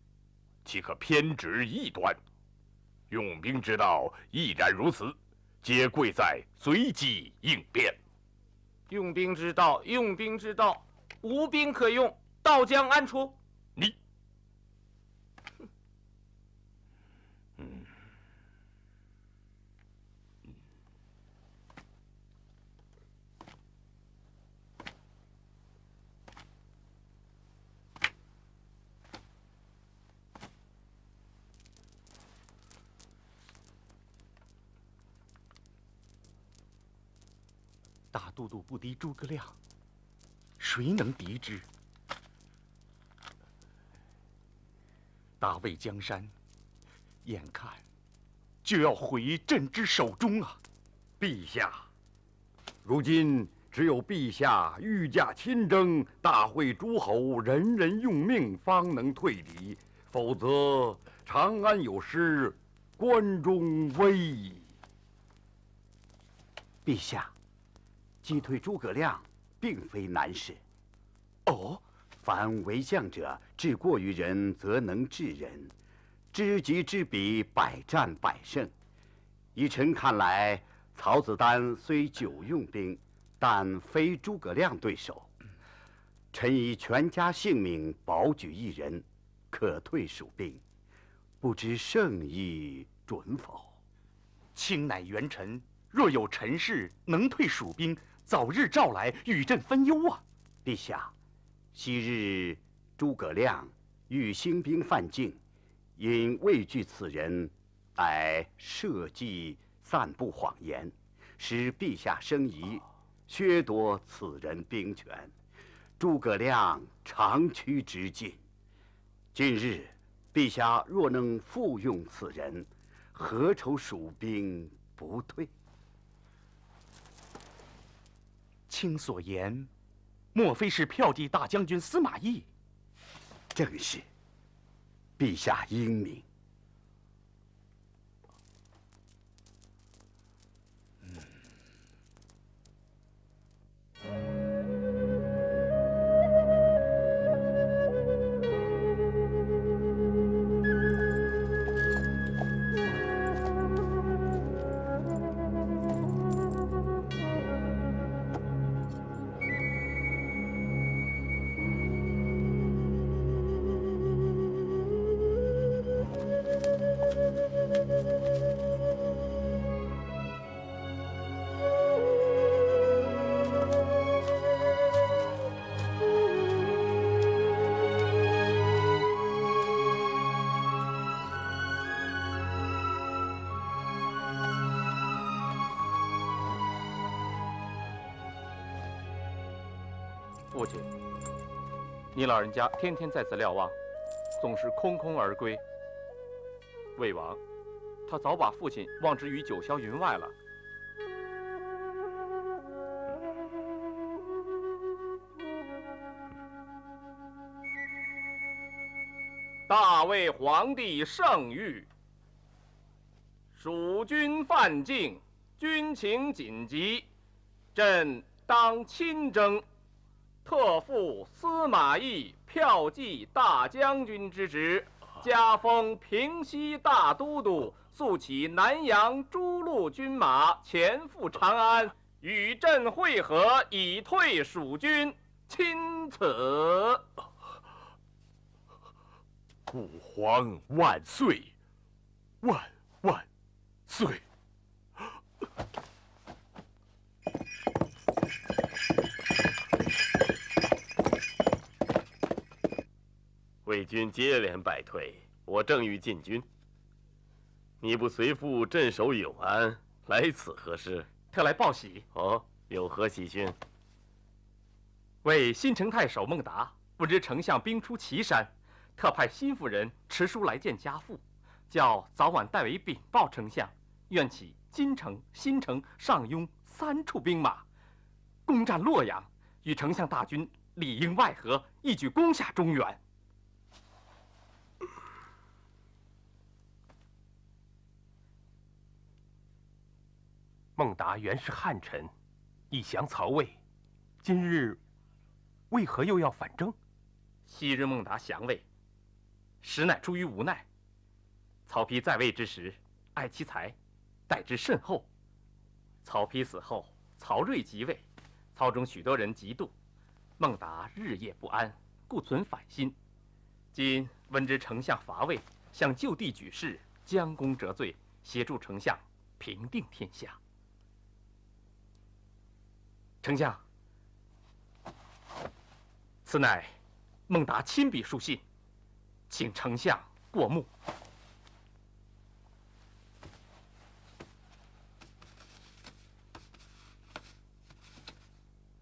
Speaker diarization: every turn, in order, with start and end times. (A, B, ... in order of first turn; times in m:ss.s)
0:00.6-0:02.2 A
0:03.1-0:08.0 A
0:08.9-0:13.4 B
0:38.1-0:39.6 C
0:40.6-0:41.6 C
0:45.4-0:46.3 C
0:47.2-0:47.8 C
0:48.6-0:50.6 C
0:51.2-0:51.9 D
0:52.8-1:04.7 D
1:06.8-1:07.3 E
1:08.2-1:10.6 E
1:12.2-1:15.7 E
1:16.3-1:18.7 E
1:19.6-1:25.3 E
1:26.3-1:30.6 E
1:31.4-1:33.8 E
1:34.5-1:40.2 C
1:40.6-1:41.1 E
1:41.7-1:45.4 E
1:46.0-1:55.3 E
1:56.0-1:58.4 E
1:59.3-2:05.5 E
2:08.7-2:09.7 C
2:10.3-2:12.5 C
2:13.5-2:14.0 E
2:15.2-2:16.2 E
3:10.5-3:10.9 F
3:12.1-3:13.8 F
3:14.4-3:15.6 F
3:17.0-3:17.4 F
3:18.0-3:20.3 F
3:29.7-3:31.9 F
3:33.5-3:37.1 F
3:37.7-3:39.6 F
3:40.4-3:57.0 F
3:59.7-4:01.5 A
4:02.4-4:03.2 A
4:03.9-4:04.2 A
4:13.6-4:16.4 G
4:17.8-4:21.1 G
4:21.3-4:22.0 F
4:22.1-4:23.6 G
4:25.2-4:37.6 F
4:38.4-4:43.0 F
4:50.8-4:52.1 H
4:52.7-4:53.6 H
4:54.2-4:54.8 H
4:55.7-4:56.8 H
4:57.5-4:58.6 F
4:59.6-5:00.6 F
5:01.7-5:03.8 F
5:04.3-5:05.1 F
5:06.0-5:09.7 F
5:10.4-5:13.0 F
5:13.7-5:20.4 F
5:23.2-5:23.6 F
5:26.2-5:26.7 F
5:27.3-5:28.4 F
5:29.3-5:30.7 F